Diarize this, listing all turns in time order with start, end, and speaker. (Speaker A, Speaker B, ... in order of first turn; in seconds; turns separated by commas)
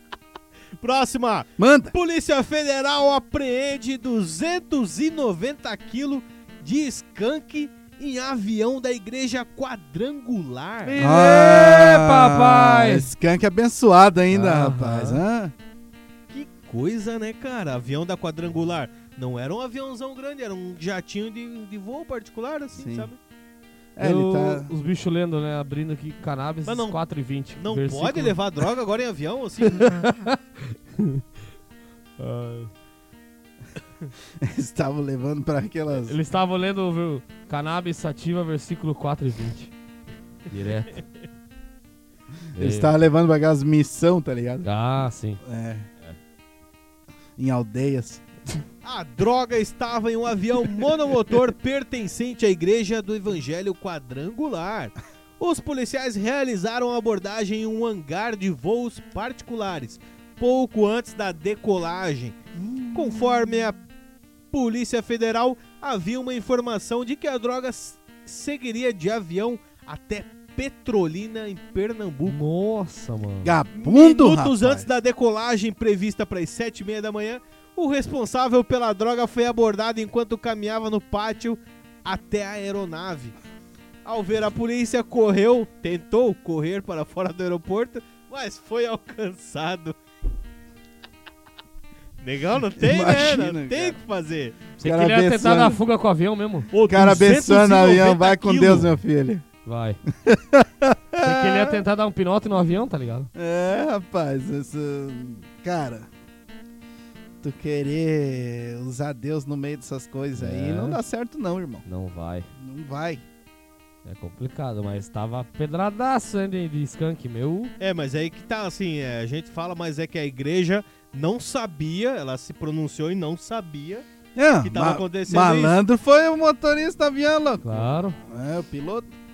Speaker A: 0.8-11.0, Speaker B: 1.6-1.9, Speaker C: 10.8-13.1, Speaker B: 11.0-15.5, Speaker C: 14.3-15.2, Speaker A: 16.3-23.2, Speaker B: 22.8-23.1, Speaker B: 24.0-24.7, Speaker C: 24.0-28.6, Speaker A: 26.6-27.0, Speaker A: 27.6-30.1, Speaker C: 29.7-31.2, Speaker C: 32.2-32.7, Speaker B: 34.4-36.2, Speaker C: 36.1-39.7, Speaker C: 40.5-41.0, Speaker C: 42.5-42.9, Speaker B: 42.6-44.7, Speaker C: 44.6-45.4, Speaker B: 45.4-45.9, Speaker B: 47.4-48.2, Speaker A: 48.8-63.8, Speaker A: 64.5-72.4, Speaker C: 72.3-73.5, Speaker B: 73.4-74.9, Speaker A: 73.7-83.4, Speaker A: 84.0-90.0, Speaker A: 92.2-94.6, Speaker B: 92.8-94.0, Speaker C: 94.8-96.7, Speaker B: 94.8-95.8, Speaker A: 96.7-98.9, Speaker B: 96.9-99.4, Speaker C: 99.7-100.0, Speaker B: 100.1-101.8, Speaker C: 101.2-103.3, Speaker B: 103.3-106.1, Speaker B: 107.4-111.8, Speaker C: 110.4-111.0, Speaker C: 111.8-112.5, Speaker B: 112.6-113.2, Speaker C: 114.0-117.7, Speaker A: 117.8-124.0, Speaker B: 124.4-129.1, Speaker A: 124.6-125.8, Speaker C: 127.6-128.2